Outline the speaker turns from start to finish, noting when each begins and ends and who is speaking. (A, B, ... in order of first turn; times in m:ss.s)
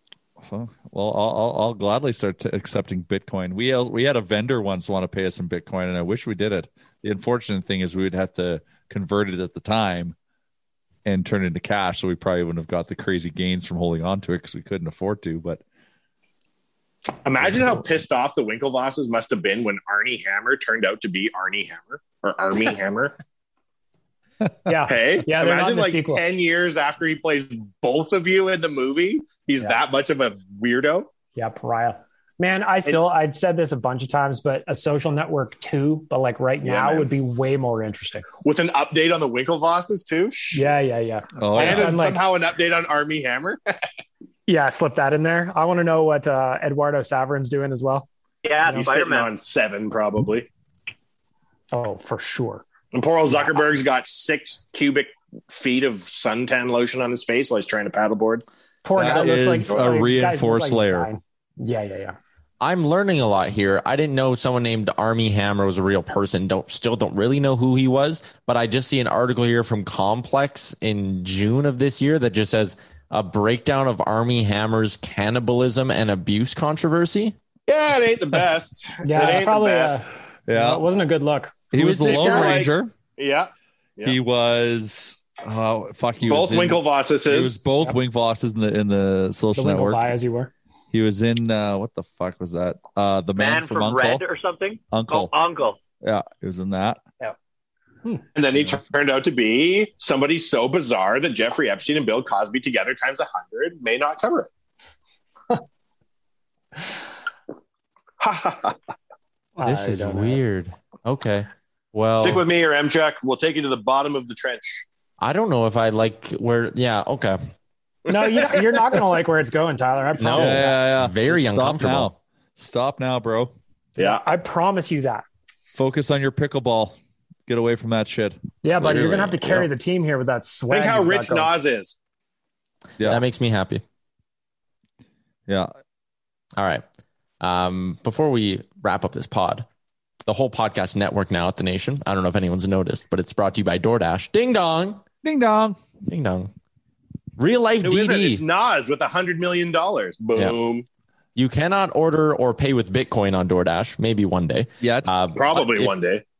0:00.4-0:10.1 A
0:11.0-0:15.6 A
0:17.2-0:23.2 B
0:24.7-0:26.2 C
0:24.9-0:31.1 B
0:31.4-0:38.3 C
0:36.6-0:37.1 B
0:38.4-0:40.7 B
0:40.5-0:42.2 C
0:41.4-0:41.9 A
0:41.5-0:43.6 B
0:44.5-0:48.1 C
0:48.4-0:49.3 D
0:48.7-0:50.5 B
0:51.7-0:52.6 C
0:52.9-0:58.4 B
0:53.3-0:53.6 C
0:58.8-1:02.2 C
0:59.0-1:01.1 A
0:59.0-0:59.9 B
1:02.6-1:17.4 E
1:17.7-1:20.0 B
1:19.0-1:21.7 C
1:20.5-1:20.8 A
1:21.7-1:22.9 A
1:21.8-1:22.6 E
1:21.9-1:24.2 B
1:24.0-1:30.2 A
1:26.2-1:27.6 B
1:29.6-1:30.5 C
1:30.9-1:34.2 A
1:33.4-1:35.8 D
1:34.9-1:35.3 A
1:36.0-1:37.0 A
1:38.3-1:44.5 B
1:48.2-1:48.8 B
1:49.6-1:50.4 C
1:49.6-1:52.4 E
1:52.2-1:54.8 B
1:55.2-1:57.4 E
1:58.1-1:58.6 B
1:58.1-2:00.8 C
2:00.2-2:02.1 E
2:00.4-2:03.5 A
2:04.0-2:04.2 B
2:04.0-2:05.2 C
2:05.7-2:06.9 A
2:07.5-2:09.7 A
2:08.6-2:11.5 C
2:10.7-2:12.0 B
2:13.0-2:13.8 E
2:16.6-2:16.8 E
2:17.4-2:19.6 E
2:20.2-2:25.0 E
2:25.2-2:25.8 A
2:26.0-2:26.5 E
2:27.4-2:28.4 E
2:27.8-2:30.8 B
2:31.3-2:35.9 E
2:34.8-2:35.1 A
2:35.3-2:36.2 B